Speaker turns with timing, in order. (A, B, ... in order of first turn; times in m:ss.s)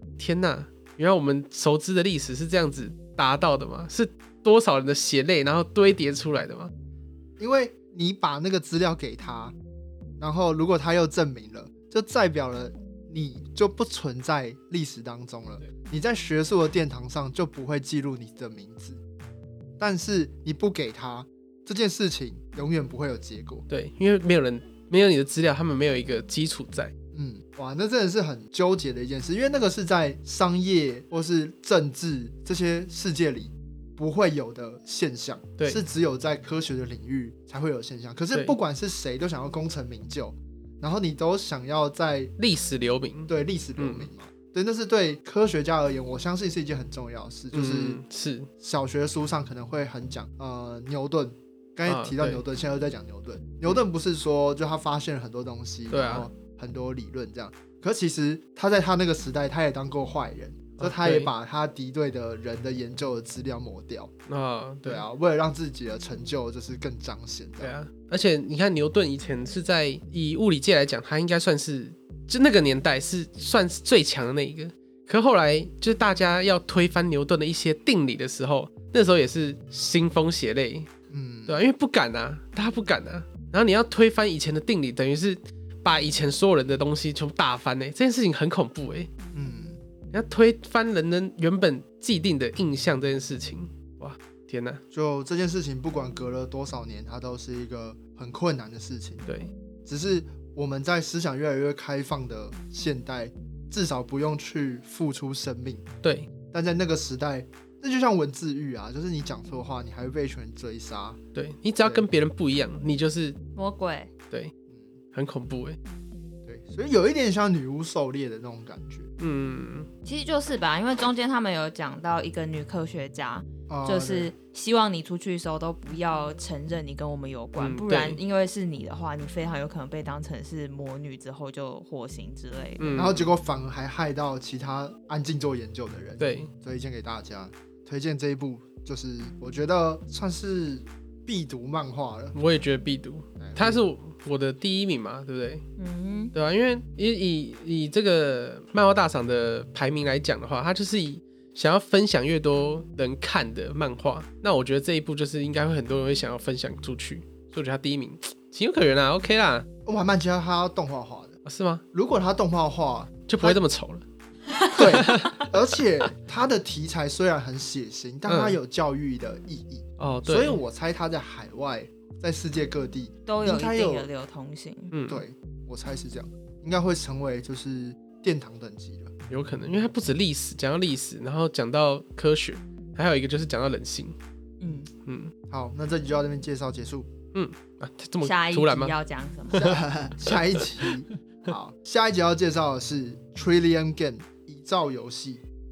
0:00.2-0:06.7 A
0:07.4-0:09.6 B
0:10.2-0:19.0 B
0:19.8-0:23.7 B
0:23.7-0:26.9 A
0:27.1-0:42.3 B
0:35.6-0:35.8 A
0:38.3-0:38.6 A
0:42.4-0:44.1 A
0:43.3-0:48.0 B
0:47.5-0:48.5 A
0:48.6-1:04.1 B
0:51.9-0:52.4 A
0:55.9-0:56.3 A
1:00.8-1:01.3 A
1:04.3-1:05.0 A
1:04.8-1:07.8 B
1:07.6-1:20.9 A
1:21.1-1:21.6 B
1:21.5-1:29.1 A
1:29.3-1:29.8 B
1:30.1-1:34.8 A
1:34.9-1:39.3 B
1:39.3-1:39.5 A
1:39.8-1:45.9 B
1:46.0-1:46.3 A
1:46.5-1:51.2 B
1:51.3-1:53.4 A
1:51.8-1:52.1 B
1:53.6-1:54.1 C
1:55.1-1:55.8 A
1:56.5-1:59.1 B
1:59.2-1:59.9 A
2:00.0-2:13.0 C
2:03.7-2:04.3 B
2:07.6-2:08.2 A
2:12.8-2:13.3 A
2:13.0-2:22.4 B
2:16.2-2:16.5 A
2:22.4-2:25.6 A
2:23.4-2:23.8 B
2:25.8-2:26.3 C
2:26.3-2:39.7 A
2:39.9-2:41.4 B
2:41.4-2:41.8 A
2:41.9-2:43.6 B
2:43.3-2:44.0 A
2:44.7-2:54.1 B
2:44.8-2:45.5 A
2:48.3-2:48.6 A
2:50.0-2:50.6 A
2:53.3-2:55.0 C
2:54.9-2:55.2 A
2:55.1-2:59.1 B
2:59.3-3:04.2 A
3:04.6-3:04.9 C
3:05.1-3:05.3 A
3:05.5-3:07.1 B
3:07.3-3:08.9 A
3:08.2-3:09.7 C
3:09.5-3:10.9 A
3:09.6-3:15.4 B